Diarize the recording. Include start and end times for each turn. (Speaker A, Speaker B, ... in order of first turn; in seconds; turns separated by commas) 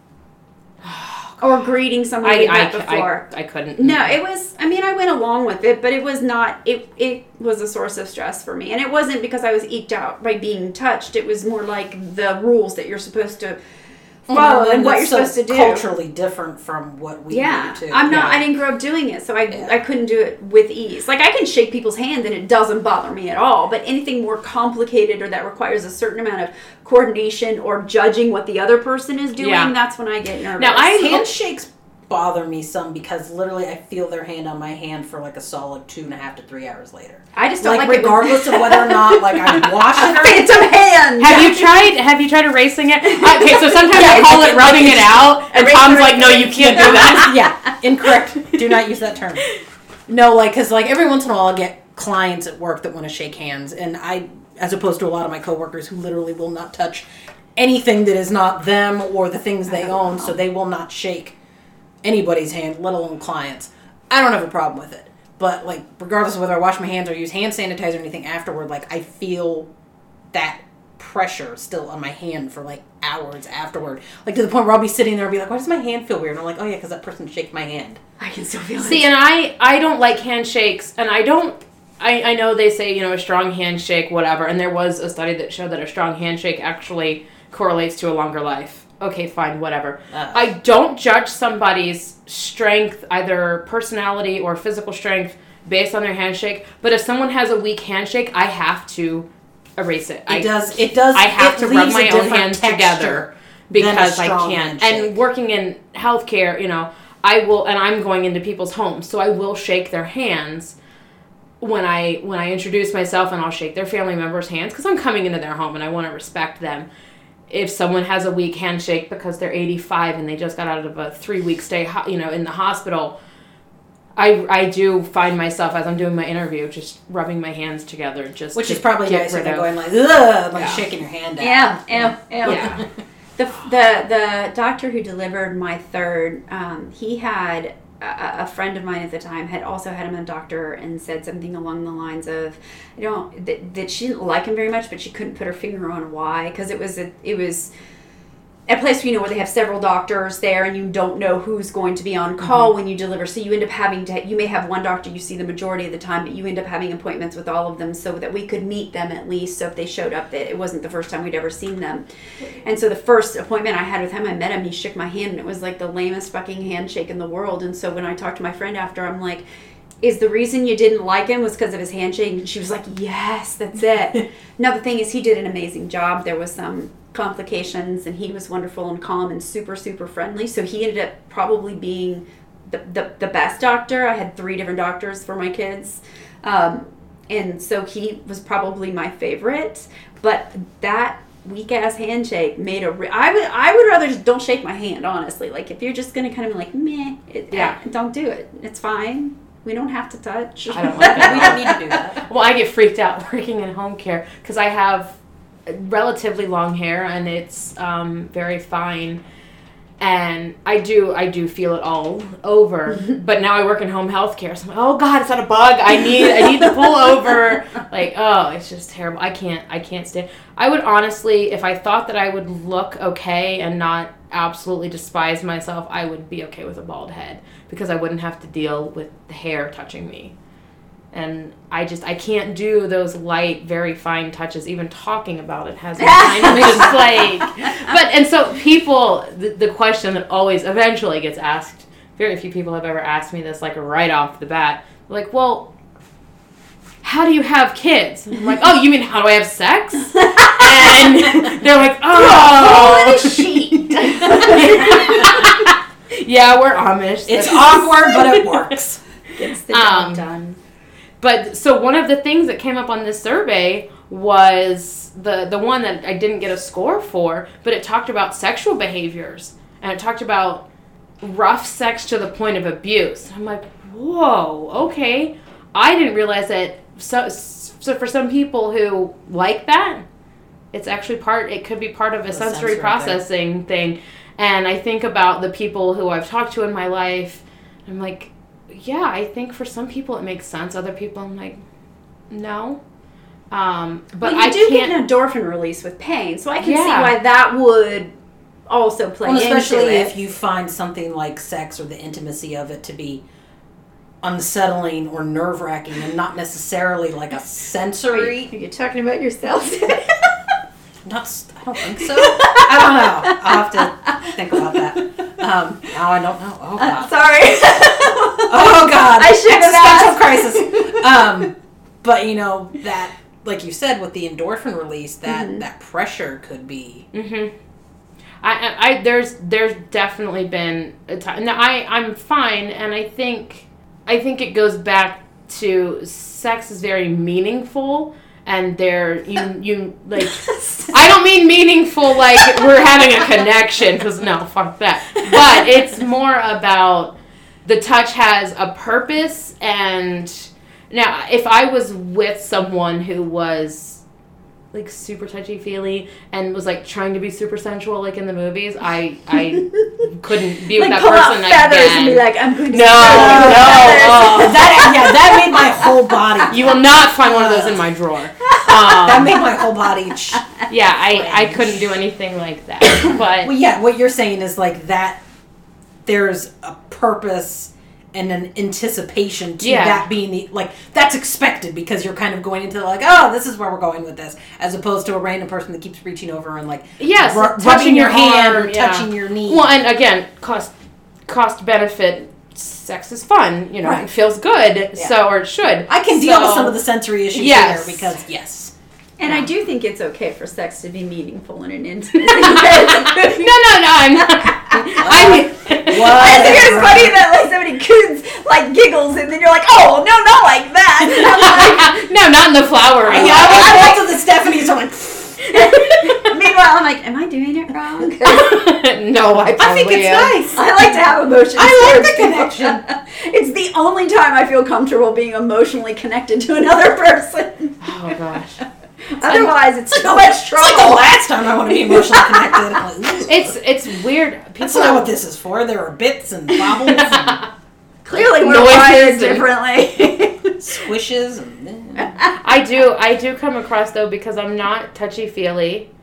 Speaker A: 0.8-1.4, Speaker B: 1.4-3.3, Speaker A: 2.2-4.2, Speaker B: 3.8-13.6, Speaker B: 14.3-15.8, Speaker C: 14.3-18.4, Speaker B: 17.3-31.1, Speaker A: 18.1-18.4, Speaker A: 29.4-29.7, Speaker A: 30.6-31.2, Speaker C: 30.9-40.7, Speaker B: 37.4-41.6, Speaker A: 41.2-47.4, Speaker B: 43.2-47.8, Speaker C: 46.7-49.4, Speaker C: 50.1-61.4, Speaker B: 59.7-60.4, Speaker C: 62.0-69.7, Speaker C: 70.3-78.0, Speaker B: 78.2-79.1, Speaker A: 78.8-100.5, Speaker C: 90.1-90.5, Speaker C: 100.3-105.2, Speaker A: 101.1-110.8, Speaker A: 111.6-116.9, Speaker A: 117.5-123.2, Speaker A: 124.2-129.7, Speaker C: 128.6-132.8, Speaker B: 131.4-132.8, Speaker A: 132.4-132.8, Speaker B: 133.4-147.7, Speaker B: 148.7-162.0, Speaker B: 162.6-169.4, Speaker B: 170.0-202.0, Speaker A: 197.5-197.8, Speaker A: 200.7-209.2, Speaker C: 201.0-202.2, Speaker A: 210.0-230.3, Speaker A: 231.1-245.7, Speaker B: 236.0-237.8, Speaker C: 236.4-237.2, Speaker A: 247.0-258.6, Speaker B: 252.1-255.5, Speaker C: 254.2-254.7, Speaker C: 257.3-259.0, Speaker B: 259.4-260.6, Speaker A: 259.7-260.2, Speaker A: 261.2-270.7, Speaker A: 271.2-280.1, Speaker A: 280.7-291.6, Speaker C: 282.3-283.2, Speaker A: 292.3-292.8, Speaker A: 293.5-294.9, Speaker B: 294.2-298.1, Speaker A: 296.6-297.2, Speaker B: 298.7-300.1, Speaker C: 299.2-303.2, Speaker C: 304.2-308.5, Speaker B: 308.1-310.5, Speaker C: 311.1-317.1, Speaker B: 311.9-315.3, Speaker B: 316.8-321.3, Speaker C: 318.5-327.1, Speaker B: 325.3-325.6, Speaker A: 327.1-327.5, Speaker A: 328.4-354.0, Speaker C: 340.5-340.9, Speaker C: 345.2-345.8, Speaker A: 354.7-364.6, Speaker B: 359.5-360.1, Speaker B: 360.7-366.5, Speaker C: 363.0-367.9, Speaker A: 366.5-369.4, Speaker B: 368.4-370.5, Speaker C: 368.9-371.9, Speaker A: 370.7-373.5, Speaker C: 373.0-375.2, Speaker C: 376.1-389.7, Speaker A: 379.6-380.1, Speaker A: 387.0-390.7, Speaker A: 391.3-396.8, Speaker C: 395.9-398.7, Speaker A: 397.3-398.2, Speaker B: 399.2-403.6, Speaker A: 402.1-406.8, Speaker B: 404.1-412.1, Speaker C: 405.0-407.2, Speaker A: 411.0-413.9, Speaker C: 413.0-415.5, Speaker B: 413.1-414.1, Speaker B: 415.5-418.7, Speaker A: 415.6-416.3, Speaker A: 418.2-420.6, Speaker C: 419.6-420.8, Speaker B: 419.7-428.2, Speaker C: 421.6-422.8, Speaker A: 427.8-428.6, Speaker B: 429.1-432.9, Speaker C: 429.2-433.6, Speaker A: 433.3-435.1, Speaker C: 434.6-437.4, Speaker A: 437.1-437.4, Speaker B: 438.1-440.8, Speaker A: 438.1-439.5, Speaker C: 440.6-442.1, Speaker B: 442.0-442.4, Speaker A: 442.4-445.9